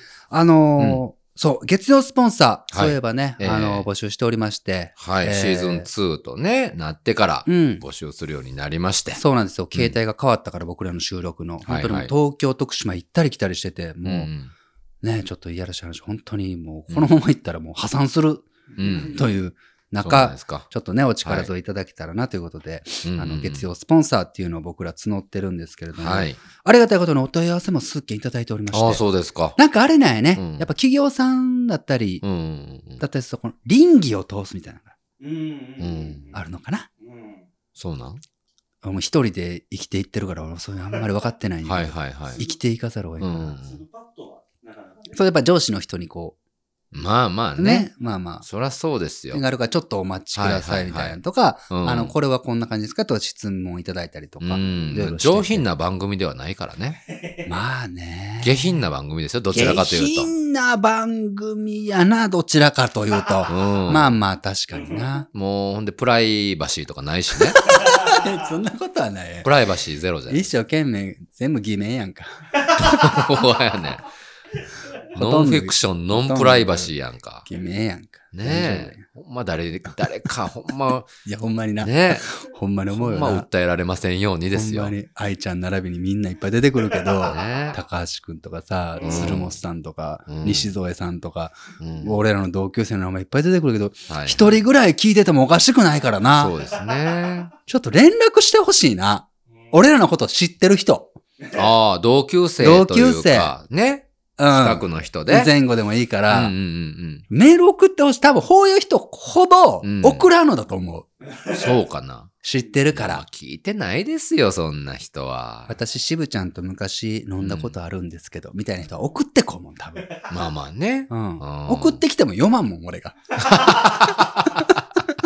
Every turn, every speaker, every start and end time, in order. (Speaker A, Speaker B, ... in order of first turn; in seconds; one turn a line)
Speaker A: 0.3-5.9
Speaker B: 2.7-3.9
Speaker B: 5.0-9.2
Speaker A: 7.5-7.8
Speaker A: 9.2-14.3
Speaker B: 11.7-12.1
Speaker B: 14.0-14.5
Speaker A: 15.0-29.0
Speaker B: 18.8-19.2
Speaker B: 20.0-20.7
Speaker B: 21.2-21.5
Speaker B: 23.0-23.7
Speaker B: 25.9-26.4
Speaker B: 28.7-29.6
Speaker A: 29.6-32.2
Speaker B: 30.4-30.7
Speaker B: 32.2-33.0
Speaker A: 33.0-34.9
Speaker C: 35.2-36.3
Speaker B: 35.8-36.3
Speaker A: 36.3-36.9
Speaker C: 37.1-37.4
Speaker B: 37.8-38.2
Speaker A: 38.8-43.6
Speaker B: 41.6-42.4
Speaker B: 43.2-43.8
Speaker C: 43.6-45.1
Speaker A: 45.1-46.4
Speaker B: 46.9-47.9
Speaker A: 47.6-48.5
Speaker B: 48.4-49.4
Speaker A: 49.3-55.7
Speaker B: 50.4-51.2
Speaker B: 51.7-52.1
Speaker B: 54.4-57.0
Speaker A: 57.5-58.7
Speaker B: 58.4-60.3
Speaker A: 59.5-65.3
Speaker B: 63.5-64.2
Speaker B: 65.3-67.7
Speaker A: 67.5-69.5
Speaker B: 69.4-70.4
Speaker A: 70.3-73.3
Speaker B: 72.8-74.1
Speaker A: 75.1-76.9
Speaker B: 75.2-77.5
Speaker A: 77.5-79.0
Speaker B: 78.3-81.1
Speaker A: 81.2-83.5
Speaker B: 81.8-82.3
Speaker B: 82.9-84.9
Speaker A: 84.5-96.6
Speaker B: 87.2-87.8
Speaker B: 89.0-89.6
Speaker B: 90.3-90.8
Speaker B: 91.8-92.2
Speaker B: 94.1-94.6
Speaker B: 96.3-97.5
Speaker A: 97.7-101.2
Speaker B: 101.5-105.5
Speaker A: 102.6-103.5
Speaker A: 104.4-106.5
Speaker B: 106.3-107.2
Speaker A: 107.3-111.1
Speaker B: 109.8-110.3
Speaker B: 111.5-112.3
Speaker A: 112.4-113.2
Speaker B: 112.9-115.8
Speaker A: 115.7-120.2
Speaker B: 117.4-117.7
Speaker B: 120.2-122.0
Speaker A: 121.1-124.1
Speaker B: 123.4-124.8